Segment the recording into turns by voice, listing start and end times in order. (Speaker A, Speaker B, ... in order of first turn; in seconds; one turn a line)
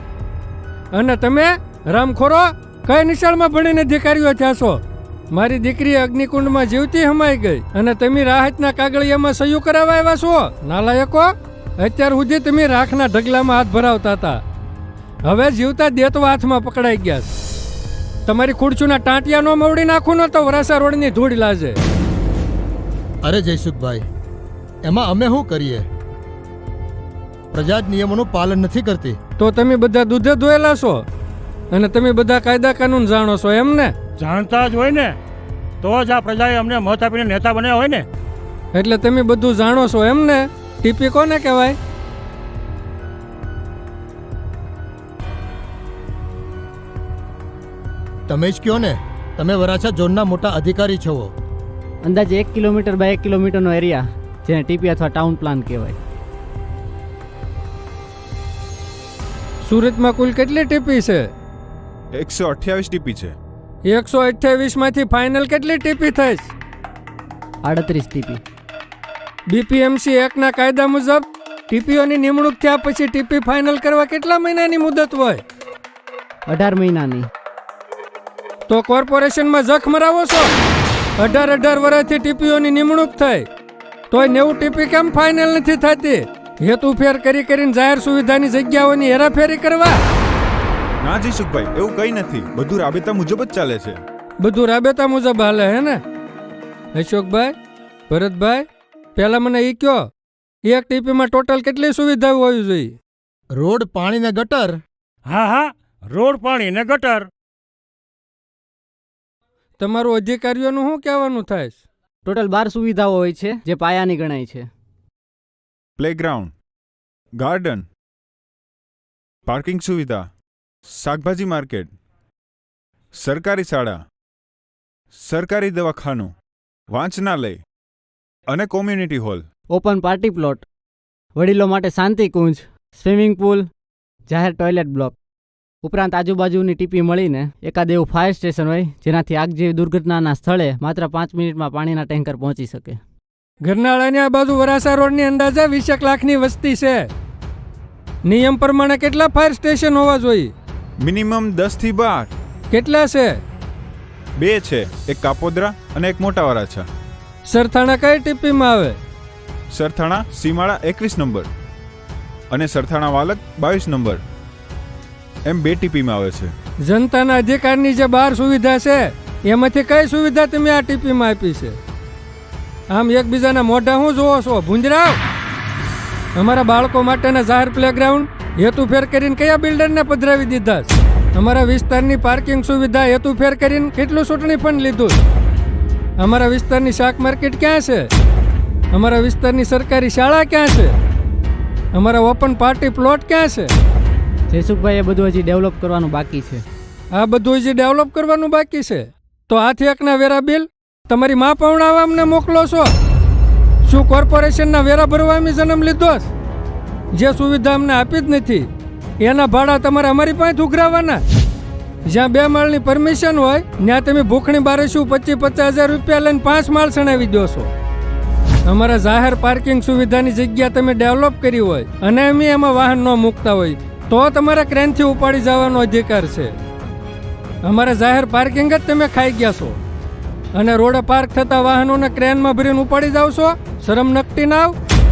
Speaker A: 0.9-4.8
Speaker A: 5.3-14.4
Speaker A: 15.2-17.3
Speaker A: 18.2-21.8
Speaker B: 23.2-24.0
Speaker B: 24.8-25.9
Speaker B: 27.5-29.2
Speaker A: 29.4-31.0
Speaker A: 31.7-33.9
Speaker C: 34.2-35.1
Speaker C: 35.8-38.1
Speaker A: 38.7-41.8
Speaker B: 48.3-51.3
Speaker D: 52.0-56.0
Speaker A: 59.6-61.3
Speaker E: 62.1-63.3
Speaker A: 63.9-66.5
Speaker D: 67.6-68.4
Speaker A: 69.5-75.4
Speaker D: 76.5-77.3
Speaker A: 78.7-80.5
Speaker A: 81.2-83.5
Speaker A: 84.1-90.0
Speaker E: 91.0-94.0
Speaker A: 94.4-96.0
Speaker A: 96.9-97.5
Speaker A: 98.1-100.0
Speaker A: 100.6-102.9
Speaker B: 103.5-104.8
Speaker C: 105.3-107.3
Speaker A: 109.8-111.8
Speaker D: 112.2-114.7
Speaker E: 116.0-116.5
Speaker E: 117.4-117.8
Speaker E: 119.5-120.3
Speaker E: 120.9-121.9
Speaker E: 123.2-124.0
Speaker E: 125.2-126.3
Speaker E: 126.9-127.6
Speaker E: 128.5-129.4
Speaker D: 129.7-130.6
Speaker D: 131.4-133.7
Speaker D: 134.3-135.2
Speaker D: 135.8-143.0
Speaker A: 143.6-147.1
Speaker A: 148.2-150.5
Speaker E: 151.0-152.3
Speaker A: 152.7-153.4
Speaker E: 154.4-156.8
Speaker A: 157.5-159.0
Speaker E: 159.7-161.5
Speaker E: 162.5-164.2
Speaker E: 165.5-166.5
Speaker A: 166.8-171.8
Speaker A: 172.9-175.2
Speaker A: 176.3-185.2
Speaker A: 186.2-188.1
Speaker A: 188.9-190.9
Speaker A: 191.9-193.7
Speaker D: 194.5-196.6
Speaker A: 197.1-202.9
Speaker A: 203.8-206.3
Speaker A: 207.1-208.7
Speaker A: 209.2-211.2
Speaker A: 212.1-217.7
Speaker A: 218.7-226.6
Speaker A: 227.6-229.8
Speaker A: 230.5-234.7